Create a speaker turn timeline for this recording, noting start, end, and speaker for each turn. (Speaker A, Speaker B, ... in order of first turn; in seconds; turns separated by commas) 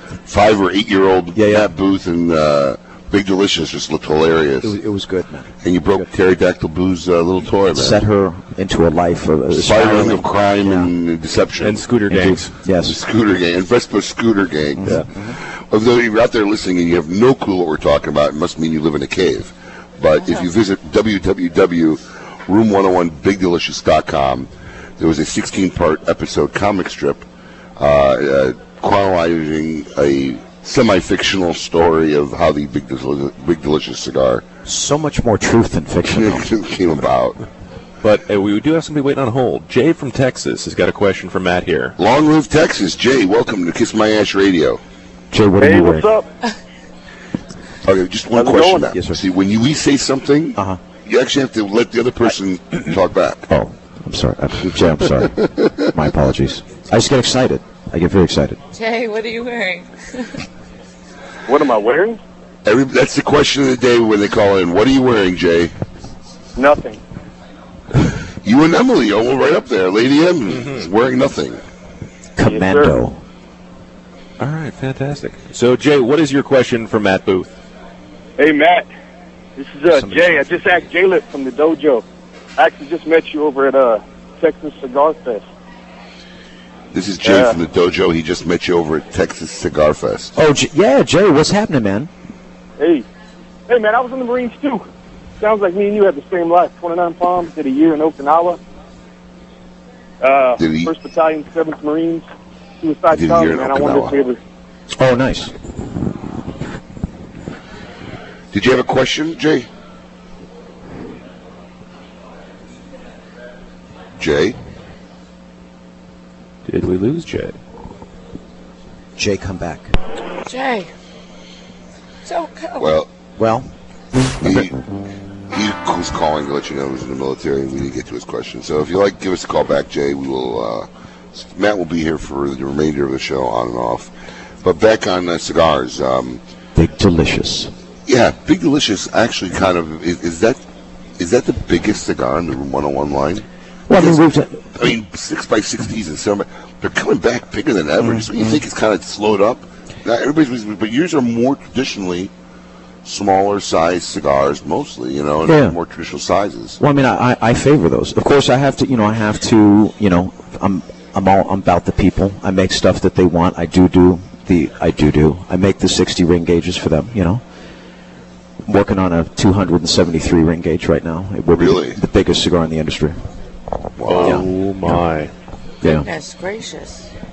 Speaker A: 0.2-4.7, Speaker B: 1.4-1.7, Speaker B: 4.6-6.1, Speaker A: 5.6-8.0, Speaker B: 7.7-10.9, Speaker A: 9.5-11.8, Speaker C: 11.6-12.5, Speaker B: 12.1-13.0, Speaker A: 12.8-27.2, Speaker B: 14.8-15.3, Speaker A: 27.8-34.4, Speaker B: 34.6-36.5, Speaker A: 36.1-37.4, Speaker C: 38.0-42.0, Speaker A: 42.0-44.8, Speaker B: 45.3-46.1, Speaker D: 45.6-46.2, Speaker A: 47.8-53.4, Speaker D: 48.4-48.9, Speaker B: 48.9-49.2, Speaker B: 53.5-58.6, Speaker E: 58.7-60.3, Speaker D: 61.5-62.2, Speaker A: 62.6-65.7, Speaker D: 66.5-67.0, Speaker A: 68.4-71.6, Speaker C: 70.5-70.8, Speaker B: 72.3-73.2, Speaker D: 72.5-72.9, Speaker C: 74.4-77.5, Speaker D: 78.4-78.9, Speaker D: 79.6-82.0, Speaker B: 79.9-80.8, Speaker D: 82.6-85.4, Speaker A: 86.9-90.3, Speaker D: 87.2-87.6, Speaker B: 90.3-92.1, Speaker D: 92.8-93.0, Speaker D: 93.7-94.8, Speaker D: 95.4-98.6, Speaker D: 100.2-102.2, Speaker A: 100.6-100.9, Speaker D: 102.8-104.4, Speaker A: 103.1-104.2, Speaker B: 105.0-105.5, Speaker A: 108.5-109.7, Speaker A: 114.2-114.5, Speaker C: 116.7-117.5, Speaker B: 119.2-119.9, Speaker E: 120.4-120.9, Speaker E: 122.2-122.9, Speaker A: 122.8-123.1, Speaker B: 123.4-123.7, Speaker B: 124.3-124.7, Speaker A: 124.4-124.8, Speaker A: 125.5-134.1, Speaker A: 134.6-136.4, Speaker B: 136.7-137.7, Speaker A: 138.1-140.6, Speaker A: 141.2-144.2, Speaker B: 143.9-144.9, Speaker A: 144.7-152.3, Speaker B: 148.0-148.6, Speaker A: 153.0-156.8, Speaker B: 155.4-155.8, Speaker B: 156.8-167.4, Speaker B: 168.7-173.2, Speaker A: 171.6-172.0, Speaker A: 174.0-174.5, Speaker C: 174.0-175.3, Speaker B: 174.1-175.0, Speaker B: 175.8-176.1, Speaker E: 175.8-177.1